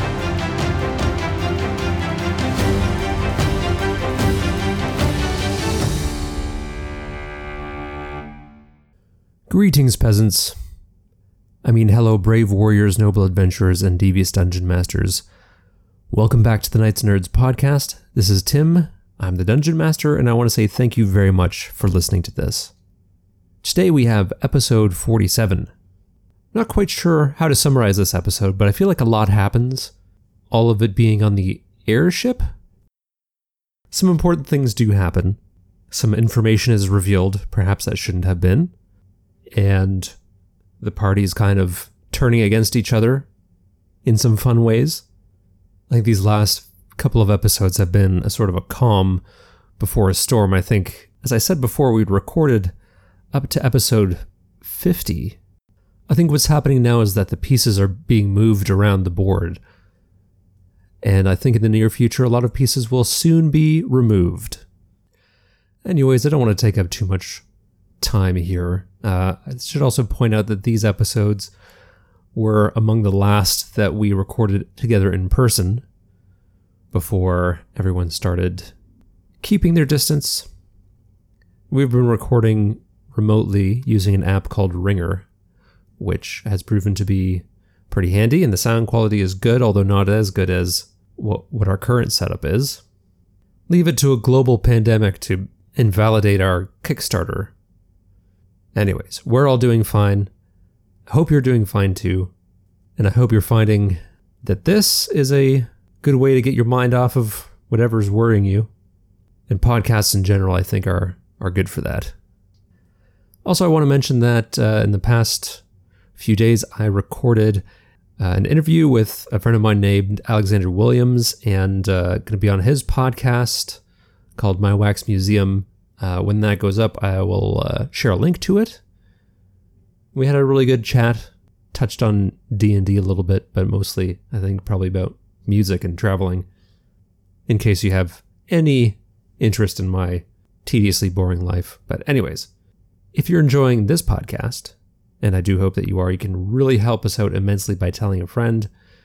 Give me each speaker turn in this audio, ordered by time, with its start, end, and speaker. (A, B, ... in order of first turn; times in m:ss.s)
0:09.5-0:10.6 A
0:11.6-0:15.2 A
0:16.1-0:22.7 A
0:23.6-0:25.7 A
0:26.5-0:29.9 A
0:30.5-0:32.5 A
0:33.9-0:35.4 A
0:35.9-0:38.7 A
0:39.5-0:40.2 A
0:40.8-0:43.3 A
0:44.0-0:45.0 A
0:45.9-0:49.2 A
0:49.8-0:52.7 A
0:53.3-0:55.4 A
0:56.1-0:59.6 A
1:01.0-1:04.6 A
1:05.8-1:07.4 A
1:08.0-1:11.5 A
1:12.3-1:15.8 A
1:16.9-1:18.7 A
1:19.4-1:20.5 A
1:21.7-1:25.2 A
1:26.0-1:32.8 A
1:33.7-1:37.5 A
1:38.8-1:40.3 A
1:41.1-1:42.3 A
1:43.0-1:48.7 A
1:49.5-1:52.1 A
1:53.4-1:55.6 A
1:56.2-1:57.6 A
1:58.2-2:03.8 A
2:04.4-2:08.8 A
2:10.1-2:16.5 A
2:17.5-2:22.5 A
2:23.1-2:28.7 A